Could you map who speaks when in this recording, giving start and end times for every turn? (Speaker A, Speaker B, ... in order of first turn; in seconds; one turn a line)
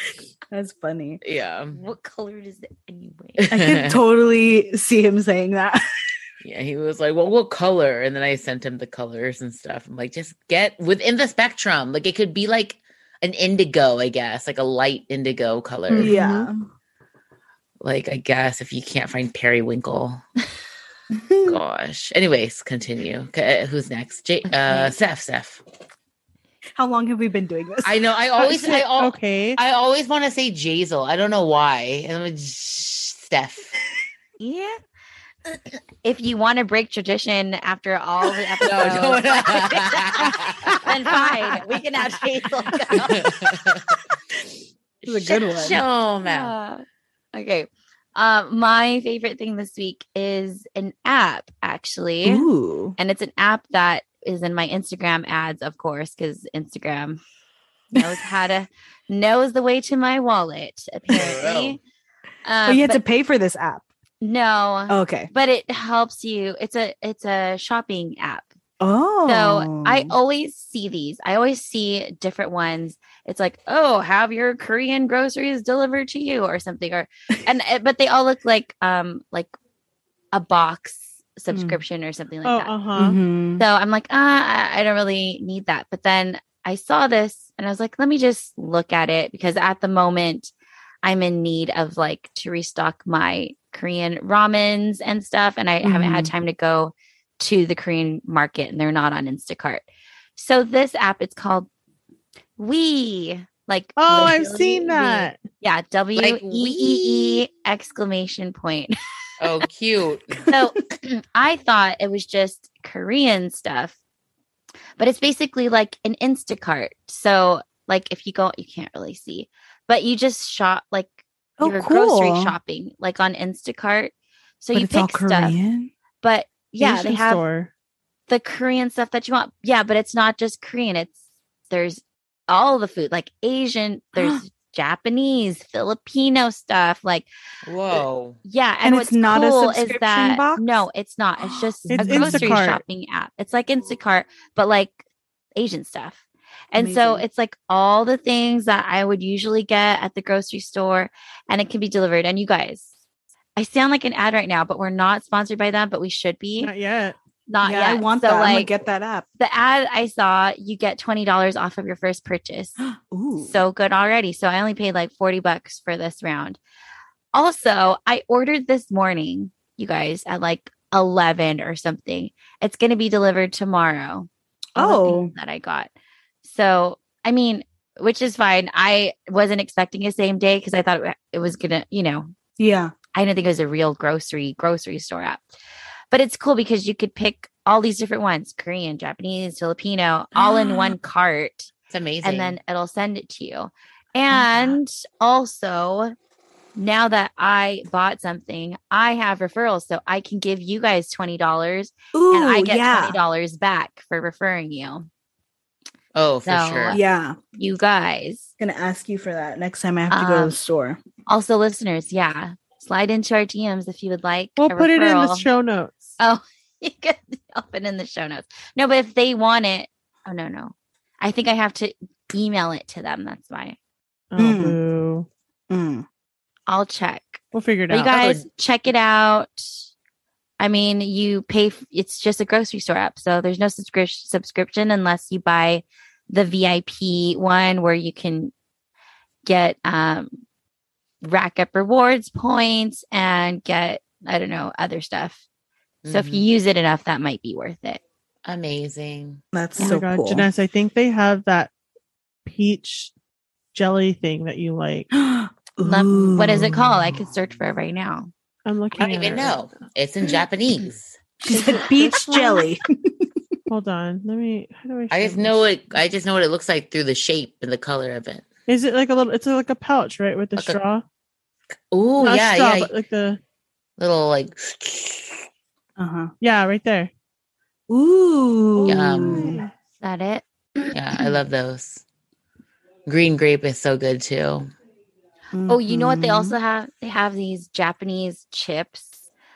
Speaker A: 0.5-1.2
Speaker B: 1.2-1.8
Speaker C: 1.7-3.5
Speaker B: 3.4-4.0
Speaker A: 3.5-5.8
Speaker B: 6.4-16.1
Speaker D: 15.9-16.5
Speaker A: 16.0-16.7
Speaker B: 17.8-20.2
Speaker A: 21.1-21.6
Speaker B: 21.4-25.6
Speaker C: 24.5-24.9
Speaker A: 26.8-27.9
Speaker B: 27.8-33.7
Speaker D: 28.4-29.6
Speaker C: 34.4-34.8
Speaker C: 36.0-43.3
Speaker B: 38.6-40.8
Speaker A: 40.6-41.2
Speaker B: 42.9-44.0
Speaker B: 45.0-46.5
Speaker A: 45.0-45.8
Speaker C: 46.2-52.5
Speaker A: 52.2-53.0
Speaker C: 53.0-57.2
Speaker C: 57.9-61.8
Speaker B: 61.1-61.8
Speaker C: 62.4-63.0
Speaker A: 62.6-63.8
Speaker C: 64.2-68.5
Speaker A: 64.9-65.3
Speaker A: 68.8-70.1
Speaker C: 69.2-79.5
Speaker C: 80.3-82.7
Speaker A: 81.5-81.8
Speaker D: 82.4-83.2
Speaker A: 82.9-83.6
Speaker C: 83.6-90.5
Speaker C: 91.0-101.7
Speaker A: 95.8-96.3
Speaker C: 102.6-108.9
Speaker D: 104.0-105.4
Speaker B: 106.2-107.4
Speaker B: 109.4-110.5
Speaker C: 110.5-114.0
Speaker C: 115.0-125.6
Speaker A: 121.6-122.5
Speaker A: 124.7-125.9
Speaker C: 126.2-127.4
Speaker D: 126.8-127.7
Speaker C: 128.3-137.3
Speaker A: 134.2-134.4
Speaker B: 137.6-138.4
Speaker C: 138.4-145.0
Speaker A: 138.8-140.8
Speaker A: 141.4-142.6
Speaker D: 141.9-142.8
Speaker C: 145.5-152.9
Speaker A: 146.7-147.2
Speaker C: 153.6-156.7
Speaker D: 156.6-157.2
Speaker C: 157.5-158.7
Speaker A: 157.6-159.2
Speaker C: 159.4-162.8
Speaker A: 162.8-163.6
Speaker C: 163.4-166.6
Speaker C: 167.3-175.9
Speaker A: 174.8-175.3
Speaker C: 176.4-182.3
Speaker A: 182.6-182.9
Speaker C: 183.1-185.5
Speaker C: 186.1-191.7
Speaker A: 190.3-190.9
Speaker B: 191.9-192.6
Speaker C: 192.2-196.1
Speaker A: 194.3-194.8
Speaker C: 196.8-205.1
Speaker A: 202.1-203.2
Speaker B: 206.1-207.0
Speaker C: 206.4-207.0
Speaker A: 206.9-207.3
Speaker C: 207.5-208.5
Speaker A: 208.6-211.0
Speaker C: 210.1-210.5
Speaker C: 211.2-215.4
Speaker D: 214.6-216.1
Speaker C: 216.2-223.8
Speaker D: 224.3-225.3
Speaker A: 224.4-224.8
Speaker A: 225.7-226.1
Speaker C: 226.7-229.8
Speaker D: 227.5-228.2
Speaker B: 228.1-228.4
Speaker C: 230.6-238.5
Speaker C: 239.4-240.4
Speaker C: 241.2-245.4
Speaker B: 246.0-246.4
Speaker C: 246.1-248.0
Speaker B: 248.4-249.4
Speaker A: 249.5-250.5
Speaker D: 249.8-251.7
Speaker D: 252.4-253.1
Speaker D: 253.7-255.1
Speaker A: 255.1-257.2
Speaker C: 255.8-258.3
Speaker D: 258.6-259.6
Speaker B: 258.9-261.2
Speaker A: 261.4-263.3
Speaker C: 261.5-262.6
Speaker D: 261.5-262.3
Speaker D: 263.7-265.7
Speaker B: 265.1-268.4
Speaker D: 268.7-271.0
Speaker B: 271.9-272.9
Speaker D: 272.2-273.4
Speaker B: 274.0-275.5
Speaker A: 276.0-276.3
Speaker D: 276.4-277.1
Speaker A: 277.9-279.6
Speaker D: 278.8-279.7
Speaker B: 278.9-279.6
Speaker C: 280.0-280.9
Speaker B: 280.9-282.0
Speaker B: 283.1-284.7
Speaker A: 285.5-286.6
Speaker C: 285.7-289.2